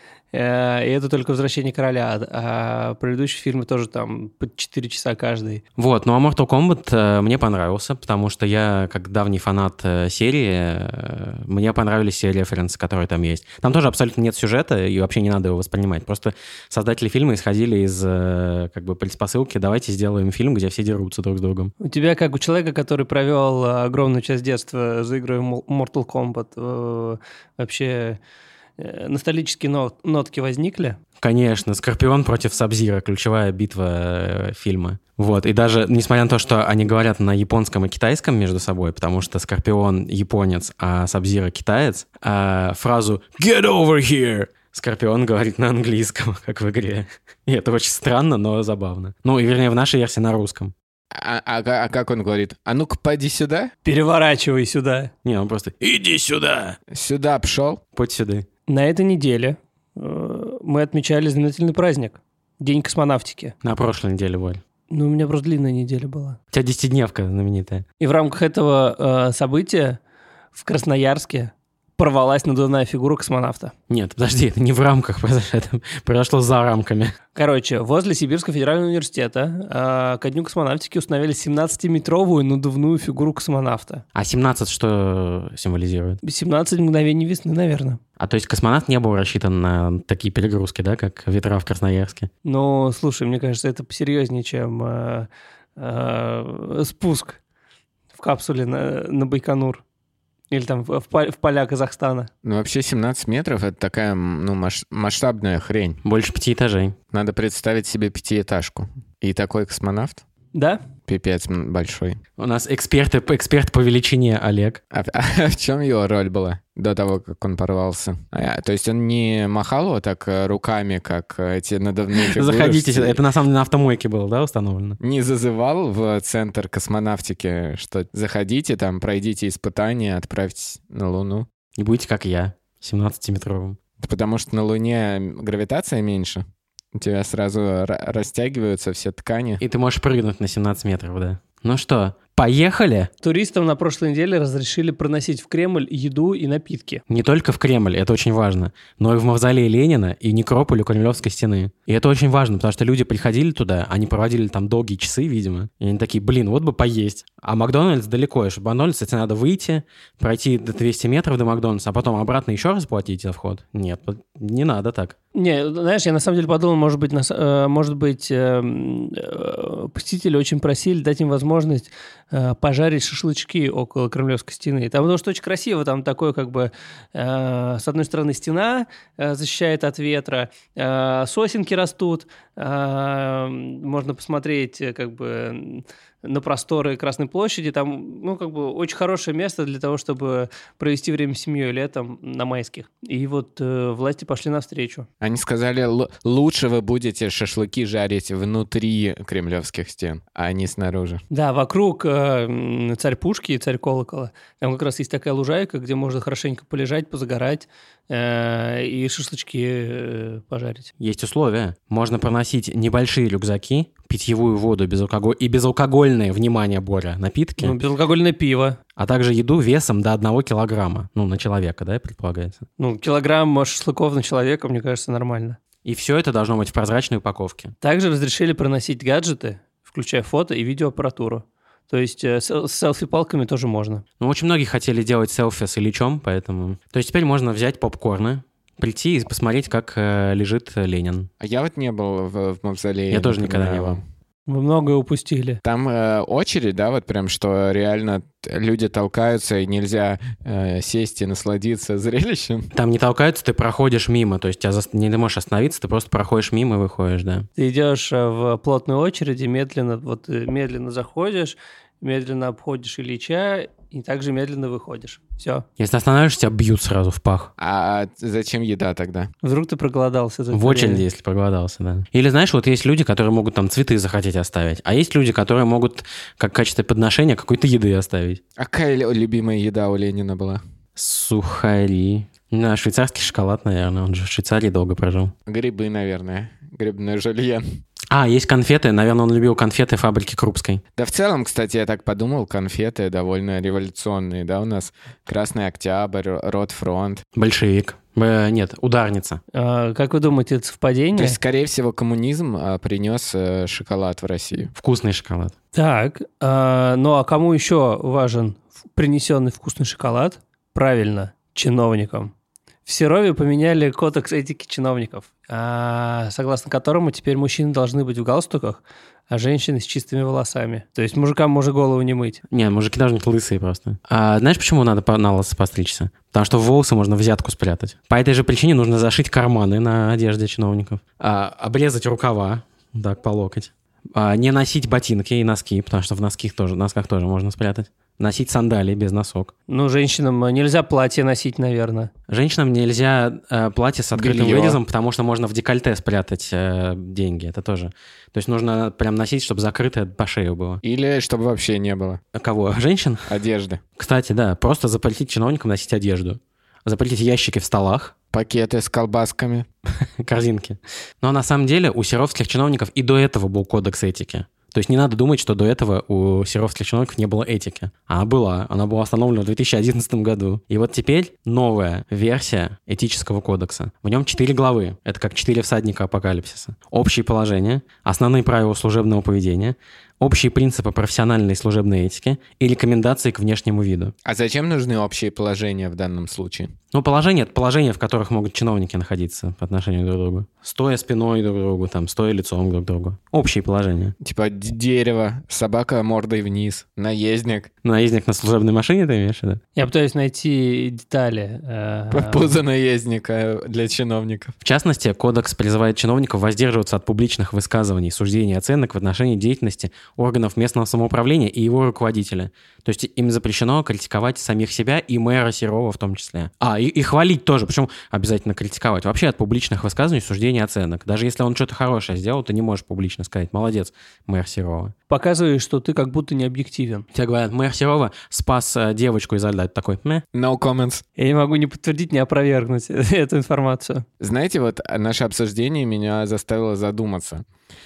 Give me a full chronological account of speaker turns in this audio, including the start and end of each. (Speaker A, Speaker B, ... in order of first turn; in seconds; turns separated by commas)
Speaker A: 0.3-5.6, Speaker B: 5.8-21.7, Speaker A: 21.8-28.2, Speaker A: 28.8-31.0, Speaker B: 31.2-50.7, Speaker C: 51.1-53.7, Speaker A: 53.9-55.1, Speaker B: 55.2-56.8, Speaker C: 56.9-57.8, Speaker B: 58.0-58.5, Speaker A: 58.7-63.5, Speaker B: 63.6-64.6, Speaker A: 64.9-66.4, Speaker B: 66.5-67.8, Speaker A: 68.0-70.0, Speaker A: 70.5-73.7, Speaker B: 73.9-77.2, Speaker A: 77.3-84.0, Speaker B: 84.2-86.2, Speaker A: 86.2-88.0, Speaker B: 88.2-92.3, Speaker A: 92.5-97.4, Speaker A: 98.1-99.8, Speaker A: 100.5-102.3, Speaker C: 102.4-106.0, Speaker B: 106.0-107.0, Speaker C: 107.1-110.2, Speaker A: 110.5-110.8, Speaker C: 111.1-112.2, Speaker B: 112.4-114.8, Speaker C: 114.9-123.2, Speaker B: 122.2-125.0, Speaker C: 125.0-131.5, Speaker B: 131.8-133.8, Speaker C: 134.0-136.4, Speaker C: 136.9-139.6, Speaker B: 139.6-143.1, Speaker A: 143.2-147.0, Speaker B: 147.1-165.2, Speaker A: 165.3-195.1, Speaker C: 195.2-201.2, Speaker A: 201.3-210.9, Speaker B: 211.0-217.8, Speaker A: 217.6-218.8, Speaker B: 219.0-222.7, Speaker A: 222.8-225.6, Speaker B: 225.8-227.7, Speaker A: 227.8-234.0, Speaker B: 234.2-241.3, Speaker C: 241.4-244.0, Speaker B: 243.1-244.0, Speaker A: 244.5-245.6, Speaker C: 245.6-252.7, Speaker B: 252.7-257.5, Speaker A: 257.6-265.6, Speaker B: 265.8-267.5, Speaker C: 267.6-269.3, Speaker A: 269.4-271.1, Speaker B: 270.5-278.4, Speaker C: 278.6-280.6, Speaker B: 281.0-285.3, Speaker C: 285.5-287.6, Speaker B: 288.1-290.8, Speaker C: 291.0-297.2, Speaker B: 297.4-299.4, Speaker A: 299.5-301.4, Speaker C: 301.2-304.7, Speaker B: 304.8-305.5, Speaker A: 305.7-312.3, Speaker A: 312.9-322.4, Speaker B: 322.5-339.5, Speaker A: 339.7-342.1, Speaker B: 342.3-350.8, Speaker C: 344.1-344.8, Speaker C: 350.8-352.2, Speaker B: 352.3-353.3, Speaker C: 353.3-353.8, Speaker B: 354.0-358.1, Speaker C: 358.3-359.7, Speaker B: 360.2-384.1, Speaker C: 384.2-386.7, Speaker B: 386.9-394.1, Speaker C: 394.2-397.7, Speaker B: 397.8-399.6, Speaker A: 399.8-402.6, Speaker C: 402.1-404.6, Speaker B: 404.6-424.9, Speaker A: 425.1-427.1, Speaker B: 427.1-430.2, Speaker C: 430.3-431.0, Speaker A: 431.2-434.1, Speaker C: 434.2-437.4